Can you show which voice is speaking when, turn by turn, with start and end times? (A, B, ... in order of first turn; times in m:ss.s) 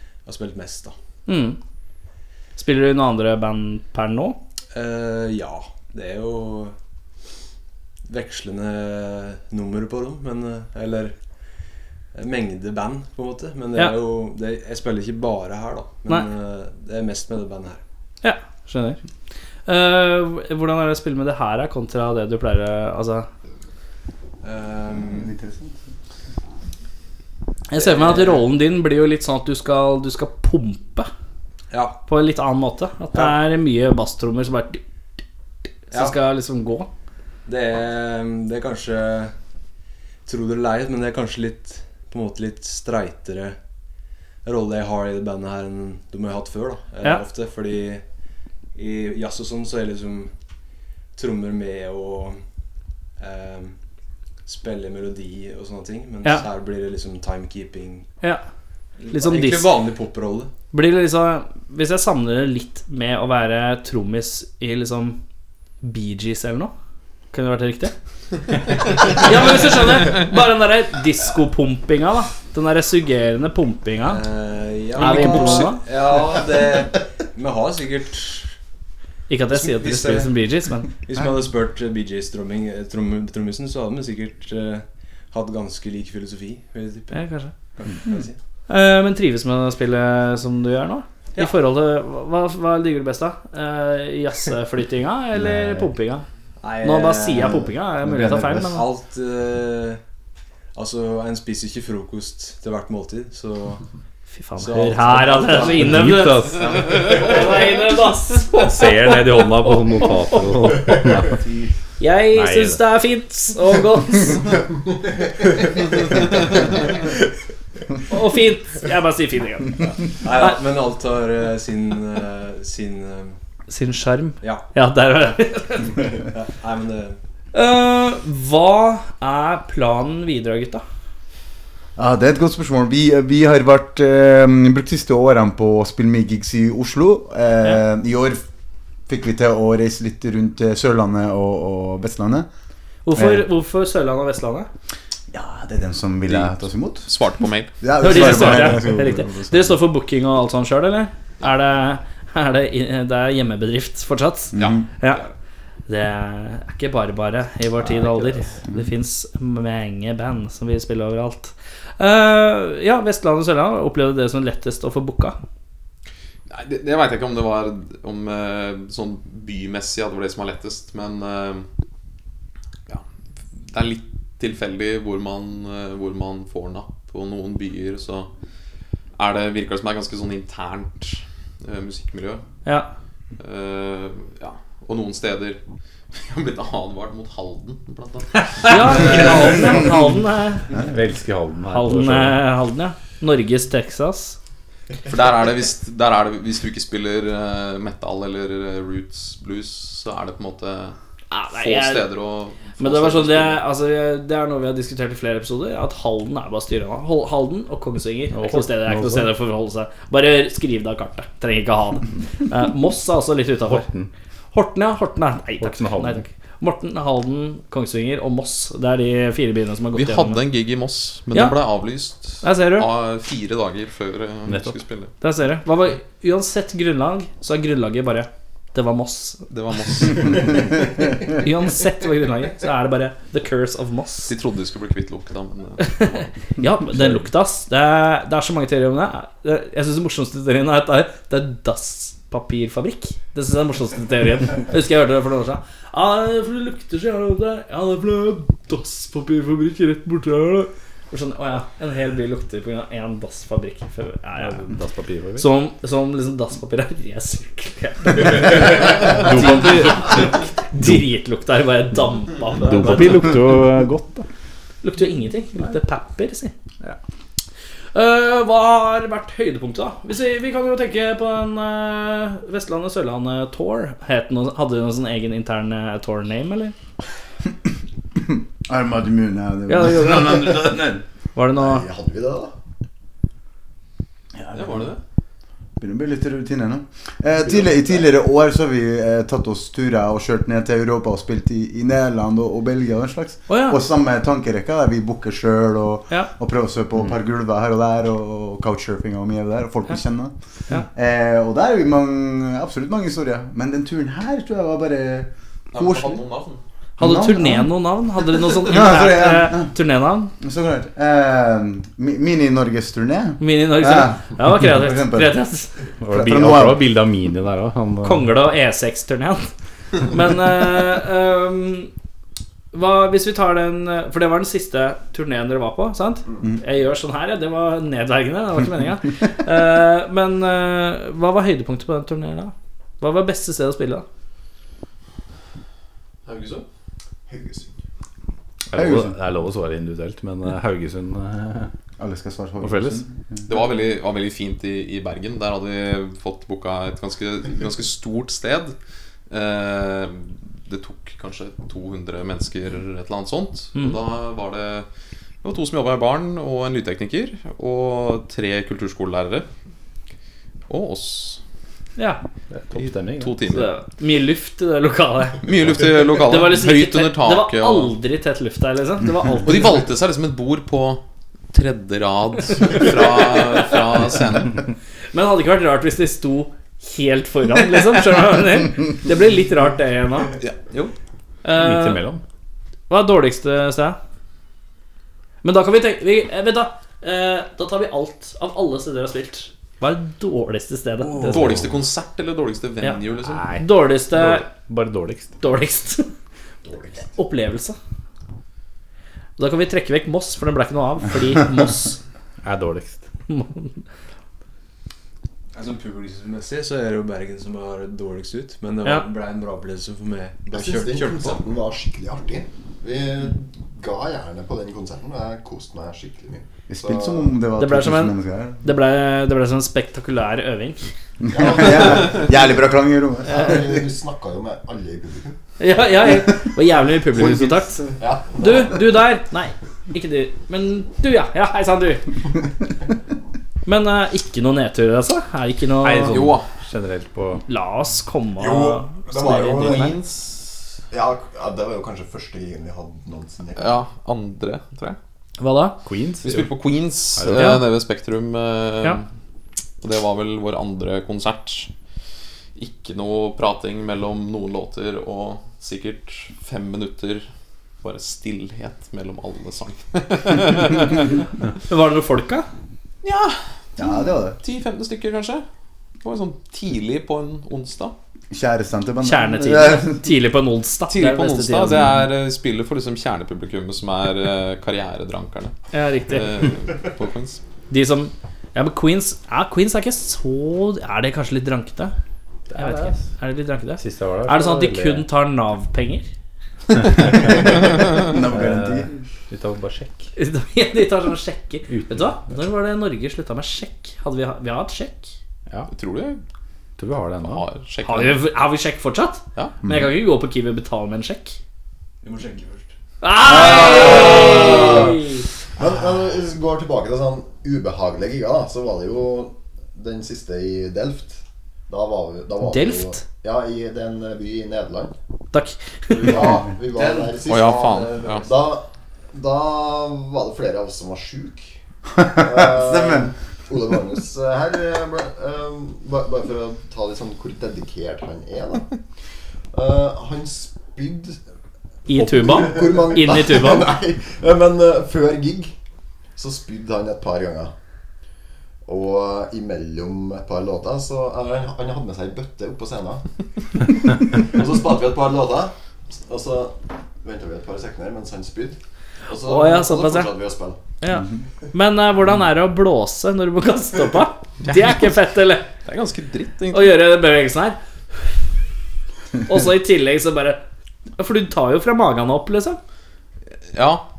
0:00.2-0:01.0 A
0:01.3-0:01.6 B
0:02.6-0:04.4 B
0:04.7-0:06.8 A
0:08.1-0:11.2 A
0:12.2-0:17.8 A
0:18.2-0:19.0 B
0:19.7-0:23.3 B
0:24.4-0:25.3 A
0:25.1-0:25.8 C
0:27.7-0:31.1 B
0:27.8-0:28.4 A
0:31.7-0:32.0 A
0:32.1-0:34.8 B
0:33.1-0:33.4 A
0:35.9-0:36.2 A
0:35.9-0:36.9 B
0:37.5-0:39.3 A
0:40.2-0:43.6 A
0:44.4-0:48.0 A
0:48.8-0:50.3 A
0:51.2-0:52.4 A
0:53.2-0:53.8 A
0:54.4-0:58.1 A
0:59.0-1:00.5 A
0:59.1-0:59.7 B
1:00.7-1:05.2 B
1:05.8-1:06.7 B
1:07.3-1:07.9 B
1:09.1-1:14.2 B
1:14.1-1:18.5 A
1:15.0-1:15.8 B
1:19.3-1:20.9 B
1:19.5-1:20.3 A
1:21.0-1:28.4 A
1:27.1-1:27.5 B
1:28.7-1:36.2 B
1:35.4-1:35.9 C
1:36.6-1:37.7 A
1:36.8-1:38.8 B
1:38.0-1:38.8 C
1:38.7-1:40.0 A
1:40.7-1:43.8 A
1:44.3-1:51.0 B
1:44.6-1:46.1 A
1:45.8-1:46.7 D
1:46.7-1:47.4 A
1:48.5-1:51.4 D
1:51.4-1:51.7 A
1:52.0-1:54.6 B
1:52.3-1:52.8 D
1:58.1-2:00.6 B
1:59.9-2:03.4 A
2:03.7-2:06.2 B
2:04.4-2:04.7 A
2:06.0-2:07.2 A
2:07.5-2:10.8 B
2:12.0-2:18.4 C
2:19.1-2:22.5 C
2:23.0-2:24.7 B
2:23.1-2:23.5 C
2:25.3-2:27.1 C
2:26.3-2:26.5 E
2:27.0-2:27.7 E
2:27.8-2:29.8 C
2:28.0-2:35.2 B
2:34.5-2:34.8 C
2:34.6-2:35.3 E
2:35.9-2:45.4 B
2:37.8-2:38.5 D
2:46.5-2:51.7 E
2:53.6-2:58.3 E
2:59.2-3:02.4 E
3:03.4-3:05.6 E
3:06.1-3:09.7 E
3:08.6-3:10.7 B
3:10.8-3:12.4 D
3:11.7-3:14.4 B
3:15.1-3:21.0 E
3:21.3-3:22.1 B
3:21.6-3:23.6 E
3:22.8-3:33.9 B
3:28.3-3:29.3 D
3:33.6-3:34.1 D
3:34.5-3:40.4 B
3:35.6-3:36.2 D
3:39.9-3:45.1 E
3:41.3-3:41.6 B
3:42.4-3:42.9 B
3:44.5-3:44.8 D
3:45.2-3:49.5 B
3:49.5-3:50.7 E
3:51.3-3:54.3 B
3:54.3-3:56.2 E
3:55.8-4:14.6 B
4:14.4-4:15.5 D
4:15.4-4:23.3 B
4:18.4-4:21.1 D
4:22.6-4:24.3 D
4:24.8-4:26.5 B
4:28.0-4:36.8 B
4:38.2-4:41.0 C
4:39.7-4:40.8 B
4:41.4-4:41.8 B
4:41.5-4:42.5 F
4:44.4-4:44.8 C
4:44.5-4:45.0 E
4:45.8-5:00.3 C
4:47.6-4:48.0 F
4:53.5-4:53.8 B
5:00.9-5:06.2 C
5:05.7-5:06.6 E
5:07.0-5:10.3 B
5:07.0-5:07.7 C
5:08.3-5:09.7 C
5:10.4-5:15.4 C
5:13.4-5:15.7 B
5:16.0-5:18.3 D
5:16.1-5:16.9 C
5:18.0-5:19.5 B
5:20.1-5:21.9 B
5:22.7-5:34.0 B
5:36.3-5:36.6 E
5:37.3-5:37.8 F
5:38.7-5:41.7 D
5:38.7-5:39.1 C
5:42.0-5:43.5 C
5:42.6-5:43.0 D
5:43.5-5:48.8 E
5:49.3-5:54.9 E
5:55.4-5:59.5 E
6:00.7-6:01.4 E
6:02.5-6:03.6 D
6:02.8-6:03.7 E
6:03.5-6:05.4 B
6:05.4-6:07.9 E
6:06.2-6:09.6 B
6:09.4-6:14.6 E
6:15.1-6:20.3 B
6:20.4-6:20.9 E
6:21.4-6:22.0 B
6:21.5-6:22.2 D
6:22.9-6:24.0 B
6:25.4-6:31.5 B
6:31.3-6:33.4 E
6:33.2-6:35.4 D
6:33.6-6:34.5 B
6:35.4-6:36.1 B
6:36.6-6:37.0 F
6:37.0-6:37.8 B
6:39.4-6:42.0 B
6:42.4-6:43.0 D
6:43.3-6:43.8 B
6:45.6-6:51.4 A
6:50.5-6:57.3 F
6:56.7-6:58.6 C
6:57.6-7:00.9 B
7:01.2-7:03.8 C
7:01.3-7:02.4 F
7:03.3-7:05.4 F
7:05.6-7:07.8 B
7:08.0-7:08.9 F
7:08.4-7:12.2 B
7:13.7-7:16.2 B
7:15.8-7:17.4 D
7:16.1-7:16.5 E
7:17.5-7:20.0 B
7:18.4-7:20.0 F
7:19.4-7:20.5 E
7:20.9-7:23.8 F
7:23.6-7:25.0 E
7:25.4-7:25.8 B
7:25.8-7:26.5 D
7:26.2-7:29.0 E
7:27.2-7:27.6 D
7:27.4-7:27.6 B
7:29.8-7:31.7 E
7:32.6-7:37.3 E
7:37.8-7:41.2 E
7:41.7-7:42.5 B
7:43.0-7:45.4 E
7:43.8-7:44.4 C
7:46.0-7:48.0 E
7:48.3-7:50.1 C
7:49.0-7:51.8 B
7:50.9-7:55.5 E
7:55.7-7:56.3 B
7:56.1-7:57.4 E
7:57.7-8:01.9 B
8:02.5-8:03.1 D
8:02.6-8:06.1 B
8:03.8-8:05.1 D
8:07.0-8:07.5 D
8:07.1-8:08.9 C
8:08.2-8:10.1 D
8:10.2-8:15.2 B
8:11.7-8:12.4 D
8:15.7-8:16.2 E
8:16.8-8:17.4 D
8:17.2-8:18.2 E
8:17.8-8:21.4 B
8:19.6-8:19.9 C
8:22.0-8:22.7 A
8:23.0-8:25.2 B
8:23.2-8:24.2 C
8:23.8-8:24.9 F
8:25.6-8:34.9 F
8:32.5-8:33.0 B
8:35.3-8:35.6 B
8:36.0-8:48.8 F
8:36.7-8:37.2 A
8:37.2-8:38.3 E
8:42.0-8:43.1 C
8:49.5-8:51.2 F
8:51.9-8:53.7 B
8:52.1-8:55.6 F
8:52.3-8:52.6 D
8:56.2-8:57.5 F
8:58.7-9:03.0 F
9:03.6-9:10.6 F
9:09.3-9:10.1 B
9:10.8-9:15.5 B
9:14.5-9:14.8 E
9:15.6-9:16.8 E
9:16.5-9:17.6 B
9:19.2-9:20.4 B
9:21.0-9:22.6 B
9:23.5-9:23.9 E